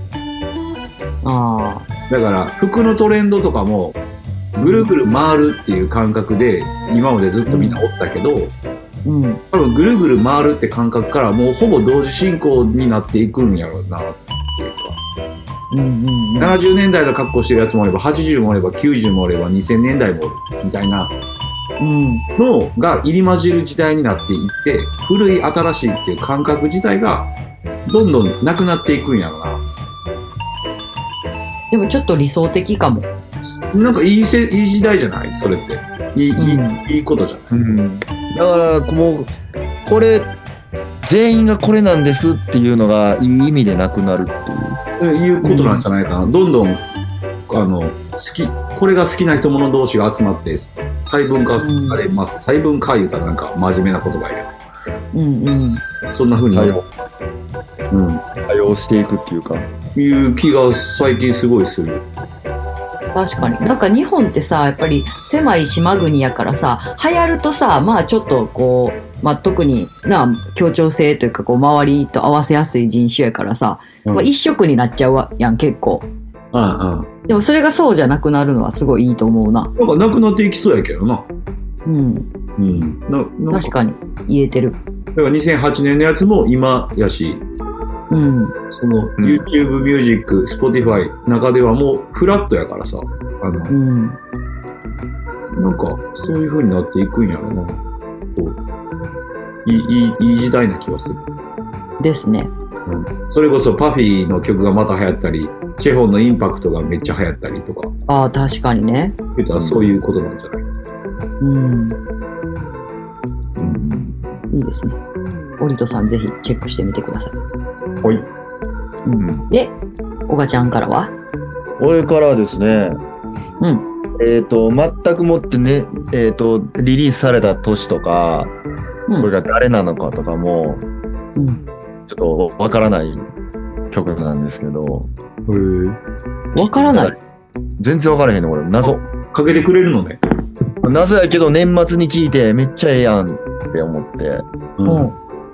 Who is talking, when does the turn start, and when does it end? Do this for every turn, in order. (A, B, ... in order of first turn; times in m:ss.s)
0:01.2-0:01.9 A
0:02.1-0:04.0 B
0:04.6-0:08.5 B
0:04.6-0:04.9 A
0:07.5-0:07.8 A
0:09.0-0:09.4 A
0:09.5-0:15.0 B
0:15.7-0:16.6 A
0:16.4-0:21.1 B
0:21.8-0:22.2 A
0:22.4-0:27.3 B
0:27.9-0:29.6 B
0:31.7-0:33.1 A
0:33.6-0:37.5 B
0:36.4-0:36.8 A
0:37.5-0:39.3 C
0:39.8-0:40.3 C
0:41.0-0:44.8 C
0:45.0-0:46.8 B
0:45.4-0:45.8 A
0:47.5-0:54.5 B
0:51.6-0:52.0 A
0:55.1-0:55.8 A
0:56.1-0:56.8 B
0:56.5-0:56.9 C
0:57.9-0:58.2 B
0:58.5-0:59.7 C
1:00.0-1:02.0 B
1:03.1-1:16.1 A
1:16.5-1:17.1 B
1:17.3-1:19.7 A
1:19.8-1:21.3 B
1:21.9-1:22.3 A
1:22.6-1:23.7 B
1:23.5-1:24.8 A
1:25.1-1:27.4 B
1:28.1-1:28.6 A
1:28.7-1:33.7 B
1:29.2-1:29.4 C
1:33.7-1:34.2 A
1:35.5-1:37.8 B
1:38.3-1:38.6 B
1:39.6-1:41.2 B
1:42.0-1:42.5 A
1:42.9-1:47.9 B
1:48.1-1:49.2 A
1:49.4-1:50.6 B
1:49.6-1:49.8 C
1:51.4-1:52.0 A
1:53.6-1:54.1 C
1:54.5-1:55.0 A
1:55.6-1:57.4 A
1:59.0-1:59.7 A
1:59.2-1:59.4 C
2:00.3-2:01.1 A
2:01.8-2:03.0 C
2:03.6-2:03.9 A
2:04.2-2:08.5 C
2:09.2-2:10.8 C
2:11.4-2:11.6 A
2:12.1-2:13.3 C
2:13.9-2:15.1 C
2:15.5-2:16.0 B
2:16.6-2:17.1 A
2:16.6-2:17.2 C
2:17.8-2:19.0 C
2:18.8-2:20.2 B
2:20.8-2:24.4 C
2:24.8-2:25.1 B
2:24.9-2:25.1 A